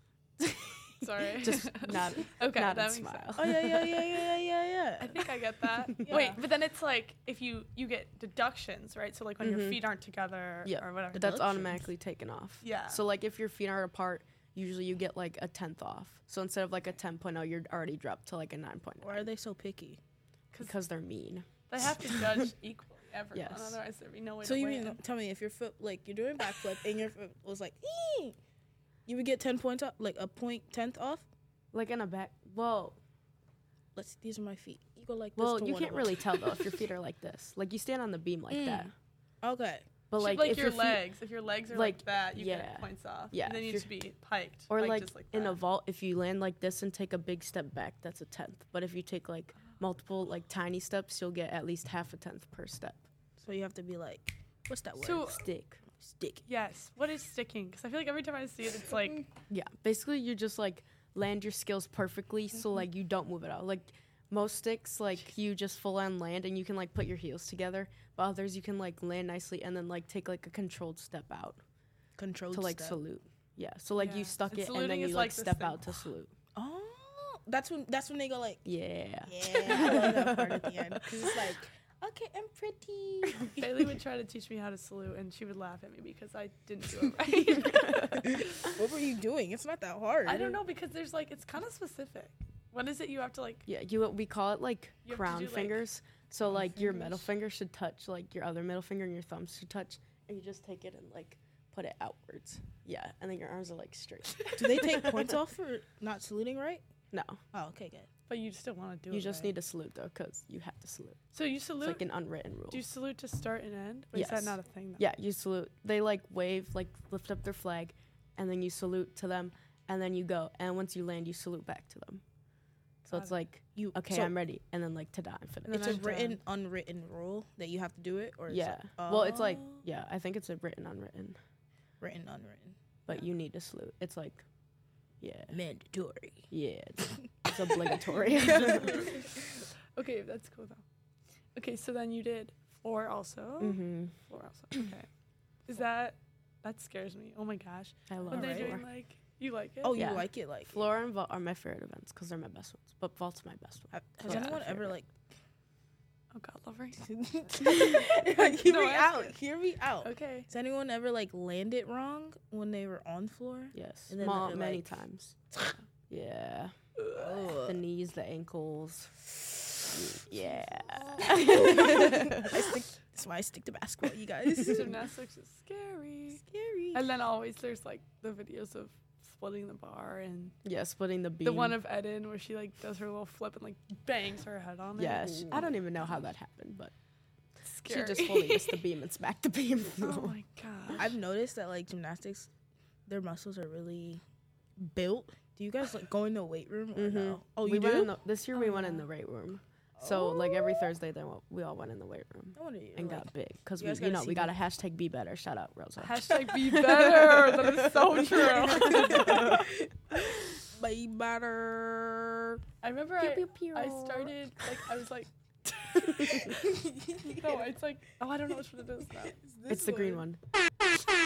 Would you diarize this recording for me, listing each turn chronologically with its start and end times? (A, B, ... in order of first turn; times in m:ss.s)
0:00.4-0:04.3 A
0:01.0-0:03.4 B
0:03.4-0:05.3 C
0:05.0-0:11.5 B
0:05.8-0:06.2 A
0:06.0-0:06.4 C
0:09.4-0:09.8 A
0:10.6-0:19.3 A
0:11.1-0:11.8 C
0:12.6-0:13.0 B
0:19.0-0:20.0 C
0:20.6-0:21.5 A
0:21.7-0:25.0 B
0:23.3-0:23.8 A
0:24.4-0:28.4 C
0:29.1-0:31.3 C
0:31.7-0:33.0 A
0:34.0-0:36.8 C
0:35.4-0:38.9 A
0:38.5-0:39.9 C
0:40.1-0:41.0 A
0:40.2-0:45.6 B
0:41.7-0:43.9 A
0:44.7-0:53.1 A
0:53.4-0:55.4 C
0:55.0-0:55.5 B
0:55.3-0:55.8 A
0:55.9-0:56.4 C
0:56.5-0:59.3 B
0:59.5-1:11.6 A
1:12.2-1:13.0 C
1:12.5-1:16.3 A
1:14.0-1:16.1 B
1:16.6-1:18.6 C
1:18.6-1:21.5 A
1:19.3-1:23.7 C
1:23.6-1:28.8 B
1:28.2-1:30.6 C
1:30.3-1:33.7 B
1:33.7-1:45.4 A
1:35.0-1:35.8 B
1:36.4-1:37.3 B
1:44.4-1:44.8 B
1:44.6-1:46.8 C
1:47.1-1:47.4 A
1:47.5-1:48.1 C
1:48.3-1:49.6 B
1:49.1-1:51.2 A
1:51.3-1:52.0 B
1:51.8-1:52.8 A
1:52.7-1:55.1 B
1:54.1-2:02.2 A
2:03.0-2:06.1 A
2:03.1-2:03.4 B
2:03.8-2:04.4 C
2:05.7-2:06.4 B
2:05.7-2:09.8 C
2:08.5-2:11.4 A
2:12.0-2:12.8 C
2:13.1-2:14.4 A
2:15.2-2:15.6 A
2:15.5-2:16.5 C
2:16.5-2:19.2 A
2:18.1-2:20.8 B
2:21.6-2:25.1 B
2:23.6-2:24.1 A
2:25.7-2:30.2 B
2:28.1-2:28.8 A
2:28.3-2:28.7 C
2:29.8-2:30.8 C
2:29.9-2:35.0 A
2:33.9-2:35.1 C
2:36.3-2:37.0 B
2:37.0-2:44.8 C
2:37.7-2:39.4 B
2:40.0-2:40.5 B
2:43.7-2:45.6 A
2:46.1-2:46.7 A
2:47.0-2:47.5 B
2:47.2-2:47.8 C
2:47.6-2:49.2 A
2:49.9-2:52.8 A
2:50.9-2:52.0 B
2:51.1-2:55.0 C
2:54.7-2:56.4 B
2:56.4-2:57.0 C
2:56.9-3:00.6 B
3:00.6-3:01.8 A
3:01.4-3:06.2 B
3:05.0-3:06.9 A
3:05.2-3:05.6 C
3:07.6-3:08.8 B
3:07.9-3:10.4 A
3:10.0-3:11.1 B
3:11.0-3:12.5 C
3:13.1-3:14.2 C
3:14.8-3:18.2 C
3:17.0-3:29.7 A
3:18.5-3:19.0 B
3:20.0-3:20.9 C
3:22.6-3:23.3 C
3:23.8-3:24.5 C
3:26.0-3:29.7 B
3:29.2-3:29.9 C
3:30.6-3:32.6 C
3:32.8-3:39.4 B
3:33.2-3:34.3 A
3:36.0-3:36.5 A
3:36.5-3:37.7 C
3:39.2-3:40.2 C
3:39.7-3:40.4 A